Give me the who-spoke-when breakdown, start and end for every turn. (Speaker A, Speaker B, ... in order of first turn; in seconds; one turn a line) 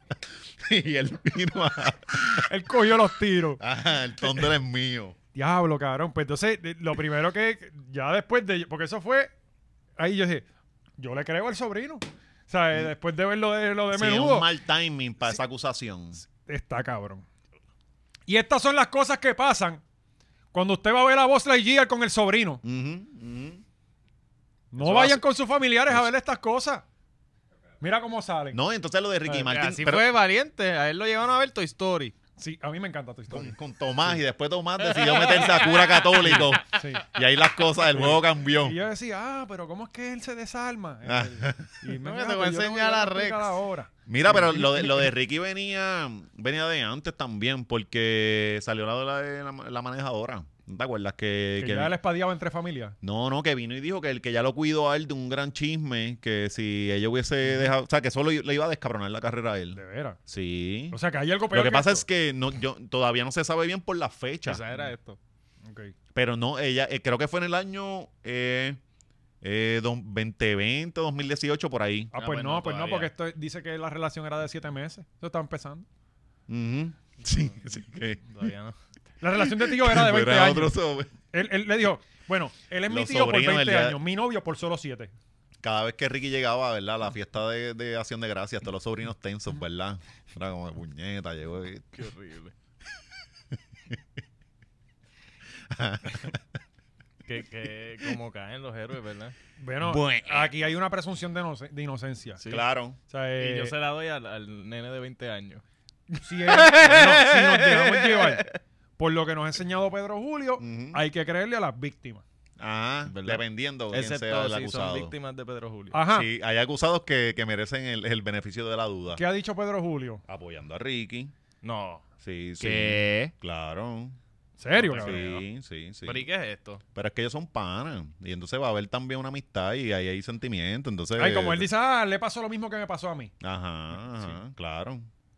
Speaker A: 0.6-2.5
Speaker B: 2.3-3.6
Speaker A: 3.6-5.2
Speaker B: 5.3-9.3
Speaker B: 10.0-10.4
Speaker B: 11.0-14.5
Speaker A: 13.9-16.2
Speaker B: 16.3-17.2
Speaker B: 18.3-19.8
Speaker B: 20.5-22.6
Speaker A: 22.6-23.6
Speaker B: 24.7-26.8
Speaker A: 24.8-25.2
Speaker B: 27.8-28.6
Speaker A: 28.5-30.1
Speaker C: 29.5-32.1
Speaker B: 32.4-34.2
Speaker A: 33.3-38.8
Speaker C: 35.0-36.5
Speaker B: 36.7-37.0
Speaker B: 37.9-45.1
Speaker A: 41.0-41.7
Speaker C: 42.0-43.5
Speaker A: 44.1-51.9
Speaker B: 51.6-53.0
Speaker A: 53.0-61.0
Speaker B: 57.4-57.7
Speaker B: 59.7-60.2
Speaker B: 60.9-62.0
Speaker A: 61.5-64.6
Speaker C: 64.5-65.2
Speaker B: 65.7-65.9
Speaker A: 66.1-68.8
Speaker A: 69.4-72.1
Speaker B: 72.1-75.8
Speaker C: 72.1-73.1
Speaker A: 76.5-78.2
Speaker C: 77.2-77.6
Speaker C: 78.2-78.8
Speaker B: 79.2-80.8
Speaker A: 79.4-81.1
Speaker B: 81.3-85.1
Speaker A: 82.9-84.0
Speaker A: 85.6-92.0
Speaker C: 92.0-92.5
Speaker A: 95.7-96.4
Speaker C: 97.2-99.3
Speaker B: 99.6-102.4
Speaker A: 99.8-100.5
Speaker A: 102.5-103.0
Speaker B: 103.1-103.7
Speaker C: 103.4-105.6
Speaker B: 106.2-108.5
Speaker C: 106.4-108.5
Speaker B: 109.0-112.2
Speaker A: 110.6-111.0
Speaker A: 112.6-115.1
Speaker C: 113.1-116.0
Speaker B: 115.9-116.3
Speaker A: 116.1-119.2
Speaker B: 119.1-120.2
Speaker A: 120.3-121.3
Speaker C: 121.6-122.0
Speaker A: 122.2-124.2
Speaker C: 122.6-123.3
Speaker B: 124.6-125.2
Speaker C: 124.8-125.4
Speaker A: 125.0-126.3
Speaker C: 126.0-126.8
Speaker A: 126.9-131.7
Speaker B: 131.2-133.3
Speaker A: 133.4-135.1